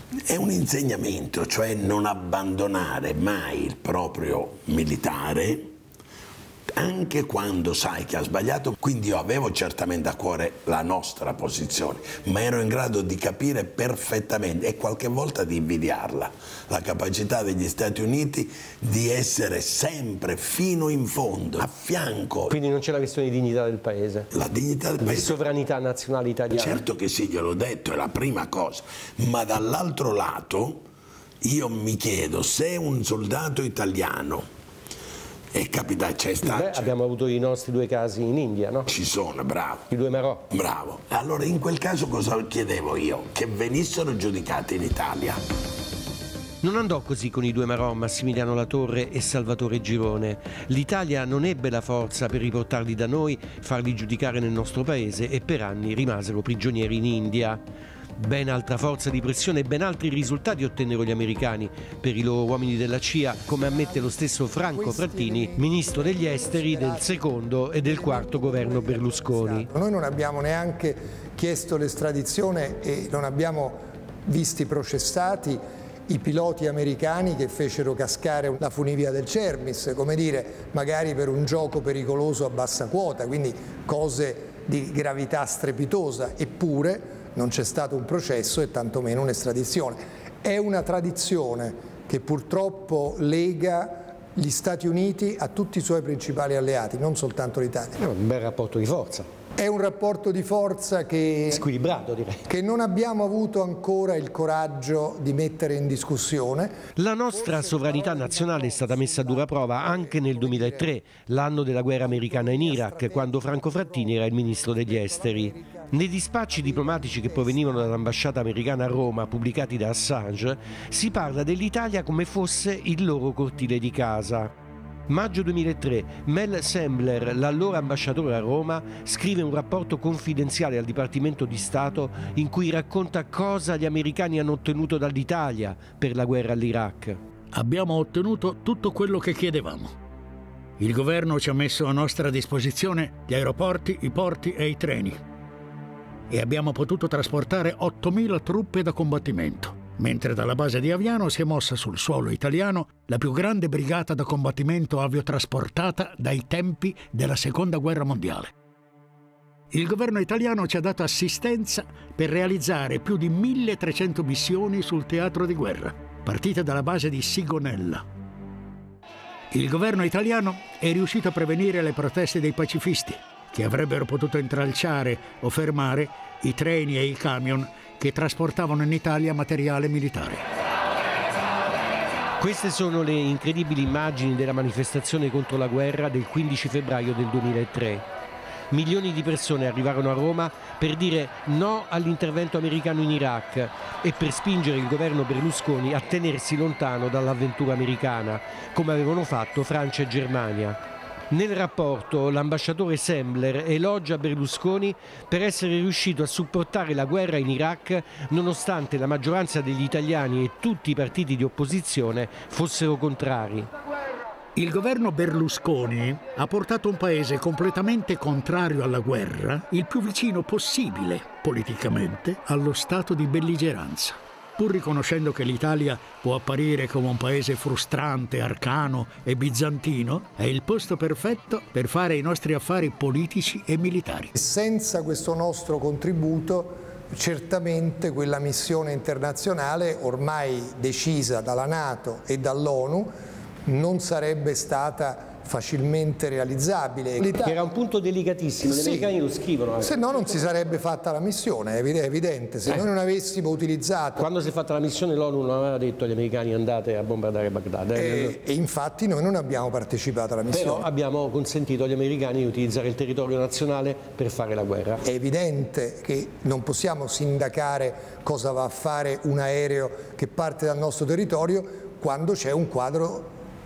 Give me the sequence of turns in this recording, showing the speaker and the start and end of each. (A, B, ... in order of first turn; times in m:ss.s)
0:00.3-0:05.7 A
0:06.8-0:22.5 A
0:22.5-0:24.3 B
0:24.3-0:25.4 A
0:25.0-0:26.8 B
0:26.5-0:30.8 A
0:31.4-0:34.5 A
0:35.5-0:36.9 A
0:36.4-0:38.9 B
0:38.9-0:39.9 A
0:39.9-0:40.4 B
0:40.5-0:45.4 A
0:46.6-0:57.6 B
0:58.2-1:09.7 B
1:04.7-1:07.2 C
1:07.8-1:38.0 C
1:38.0-1:39.3 B
1:39.6-1:41.6 C
1:41.5-1:42.5 B
1:42.5-1:46.7 C
1:47.0-2:04.5 B
1:47.3-1:50.9 C
1:52.0-1:55.9 C
1:56.5-1:57.9 C
2:05.1-2:17.2 B
2:17.5-2:20.0 D
2:20.8-2:25.2 D
2:26.3-2:38.5 D
2:39.7-2:48.0 D
2:49.5-3:00.4 D
3:02.4-3:08.0 B
3:08.7-3:20.8 B
3:21.3-3:33.7 B
3:34.6-3:54.3 D
3:54.4-4:03.1 C
4:03.7-4:07.6 C
4:07.3-4:10.6 B
4:08.6-4:09.1 C
4:09.8-4:14.3 C
4:14.2-4:18.4 B
4:17.9-4:20.9 C
4:20.5-4:25.0 B
4:25.0-4:33.3 C